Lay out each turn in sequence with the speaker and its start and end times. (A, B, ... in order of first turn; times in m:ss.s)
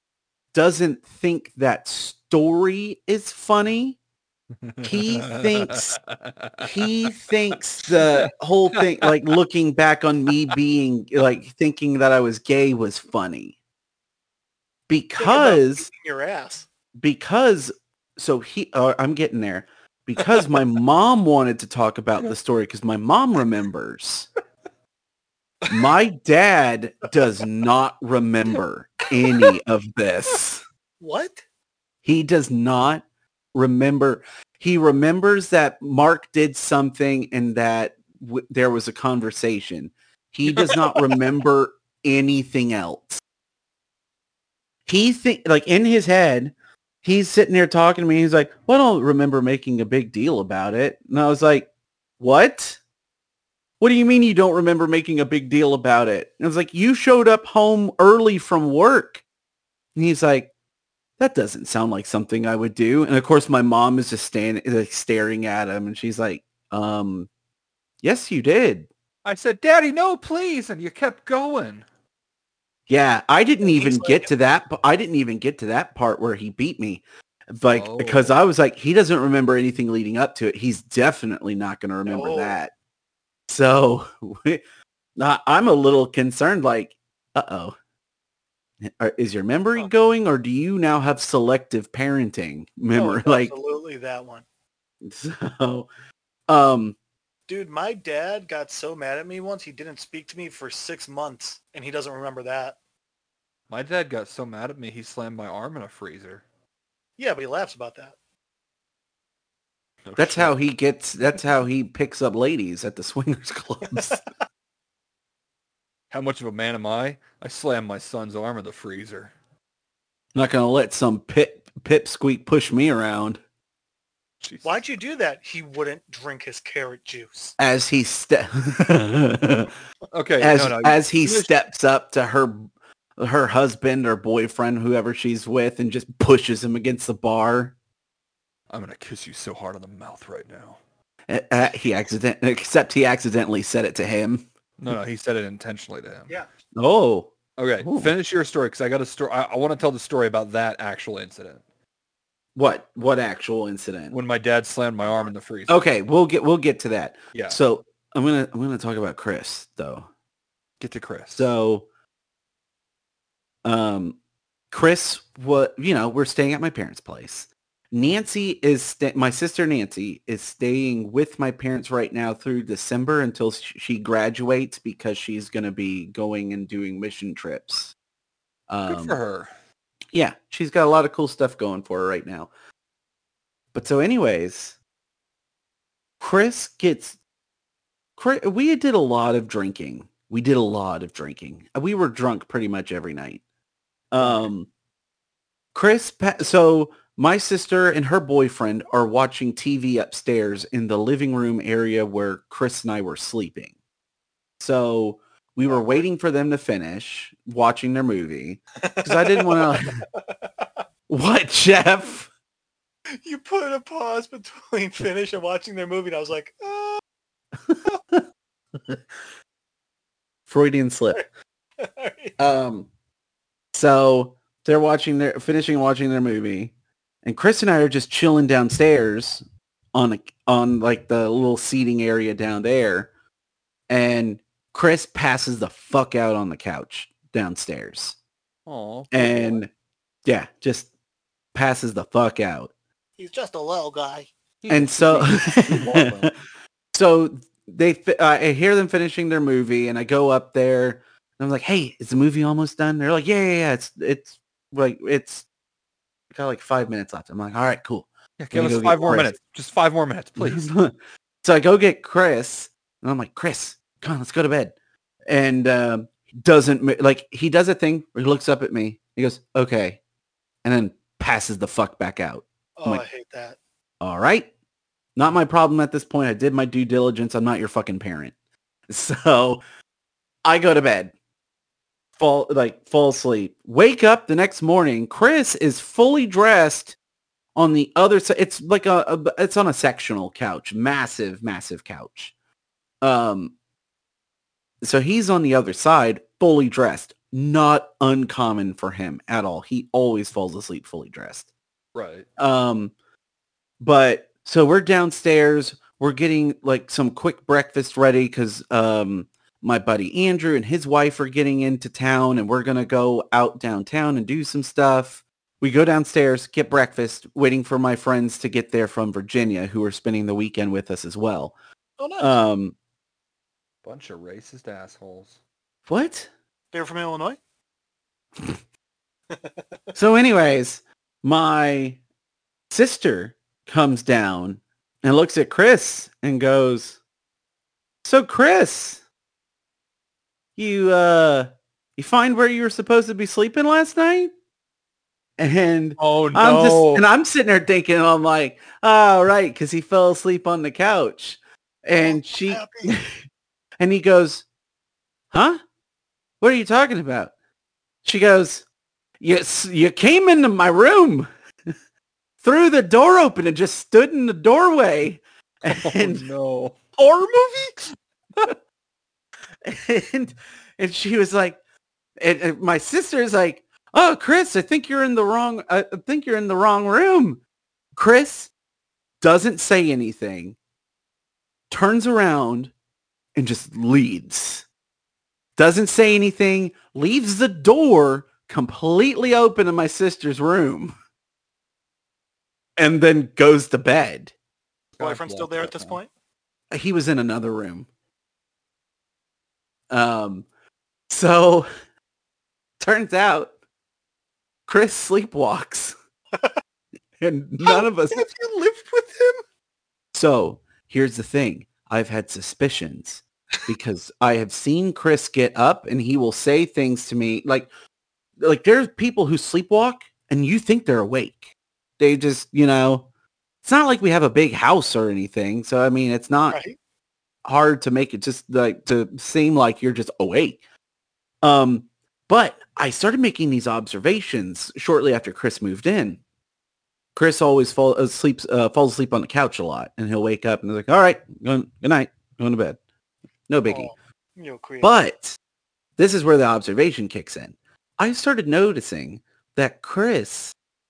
0:00.5-0:04.0 A
0:04.6-0:06.7 B
0:04.8-0:06.0 A
0:06.6-0:13.5 A
0:08.0-0:08.2 B
0:14.9-0:15.9 A
0:15.2-0:16.7 C
0:17.0-0:24.3 A
0:25.7-0:30.6 A
0:29.2-0:29.5 C
0:31.0-0:31.4 C
0:32.0-0:43.2 A
0:40.5-0:41.2 C
0:44.9-0:51.7 A
0:52.2-0:52.8 A
0:53.8-0:59.2 A
0:59.9-1:00.5 A
1:01.2-1:07.3 A
1:08.0-1:08.9 A
1:09.2-1:11.8 B
1:12.9-1:22.7 A
1:13.6-1:14.3 C
1:17.6-1:18.3 B
1:22.0-1:22.6 C
1:23.5-1:24.6 A
1:25.2-1:27.7 A
1:28.8-1:33.5 A
1:32.9-1:34.4 C
1:35.0-1:35.9 A
1:36.5-1:37.0 A
1:37.5-1:42.8 C
1:43.7-1:46.4 B
1:47.2-1:48.1 C
1:50.0-1:50.5 B
1:50.2-1:54.2 A
1:53.9-1:54.2 C
1:56.1-1:59.3 B
2:00.3-2:03.4 A
2:04.4-2:04.8 B
2:04.6-2:07.6 C
2:07.6-2:09.7 A
2:10.1-2:11.6 B
2:10.4-2:17.7 A
2:18.7-2:20.8 B
2:21.3-2:24.9 A
2:24.8-2:26.3 B
2:26.7-2:28.1 A
2:27.6-2:31.6 B
2:32.5-2:34.2 A
2:34.1-2:35.8 B
2:35.7-2:40.1 A
2:37.3-2:37.6 B
2:40.8-2:41.5 B
2:41.3-2:41.8 A
2:43.6-2:44.2 A
2:44.7-2:57.9 A
2:58.7-2:59.2 A
2:58.8-2:59.5 B
3:00.1-3:02.5 A
3:03.7-3:04.8 A
3:06.2-3:07.2 A
3:08.2-3:13.4 A
3:14.1-3:14.7 A
3:15.7-3:23.7 A
3:24.6-3:30.0 A
3:25.7-3:26.0 C
3:28.8-3:30.6 C
3:31.1-3:32.3 A
3:33.2-3:37.0 C
3:37.6-3:38.2 A
3:40.5-3:41.2 A
3:41.8-3:42.4 C
3:42.4-3:42.9 A
3:43.7-3:46.7 A
3:47.2-3:53.1 A
3:53.9-3:58.2 A
3:58.6-3:59.6 B
3:59.1-3:59.7 A
4:00.2-4:00.9 A
4:01.5-4:02.7 A
4:03.2-4:04.3 C
4:04.6-4:06.3 B
4:04.7-4:06.3 A
4:06.9-4:15.4 A
4:16.3-4:19.3 A
4:18.4-4:20.7 B
4:20.4-4:24.7 A
4:25.3-4:30.0 A
4:30.6-4:33.0 A
4:32.8-4:33.6 C
4:34.0-4:34.5 A
4:35.2-4:38.3 A
4:38.9-4:39.6 A
4:40.4-4:41.1 A
4:42.2-4:47.0 A
4:47.5-4:52.3 A
4:53.0-4:53.5 A
4:54.8-5:01.5 A
5:01.9-5:02.2 B
5:02.4-5:02.9 A
5:03.8-5:21.5 A
5:22.0-5:22.4 C
5:22.2-5:22.7 A
5:23.8-5:25.4 B
5:25.9-5:26.3 A
5:26.7-5:27.4 C
5:29.3-5:29.6 C
5:29.9-5:32.0 A
5:32.7-5:37.0 A
5:38.0-5:39.0 A
5:40.6-5:44.3 A
5:45.4-5:53.2 A
5:46.0-5:47.0 B
5:52.0-5:52.9 C
5:53.8-5:54.4 A
5:55.3-5:55.6 A
5:56.4-5:57.3 A
5:58.0-5:58.6 A
5:59.2-6:01.3 A
6:02.4-6:06.3 A
6:05.6-6:06.8 B
6:07.0-6:07.8 C
6:09.6-6:11.6 A
6:12.2-6:17.4 A
6:18.0-6:18.5 A
6:19.2-6:20.6 A
6:21.7-6:22.7 A
6:23.3-6:24.6 A
6:25.6-6:30.9 A
6:32.8-6:34.3 A
6:34.9-6:36.0 B
6:35.0-6:36.1 C
6:36.7-6:37.9 A
6:39.9-6:40.4 A
6:41.1-6:41.7 A
6:42.8-6:43.5 A
6:44.7-6:45.9 A
6:47.2-6:48.2 A
6:47.6-6:49.4 C
6:50.1-6:57.7 A
6:58.4-7:03.0 A
7:03.6-7:06.6 A
7:06.5-7:06.8 C
7:07.4-7:10.6 A
7:11.4-7:16.2 A
7:17.1-7:22.8 A
7:23.5-7:23.9 A
7:23.6-7:25.0 C
7:24.8-7:25.4 A
7:26.0-7:30.5 A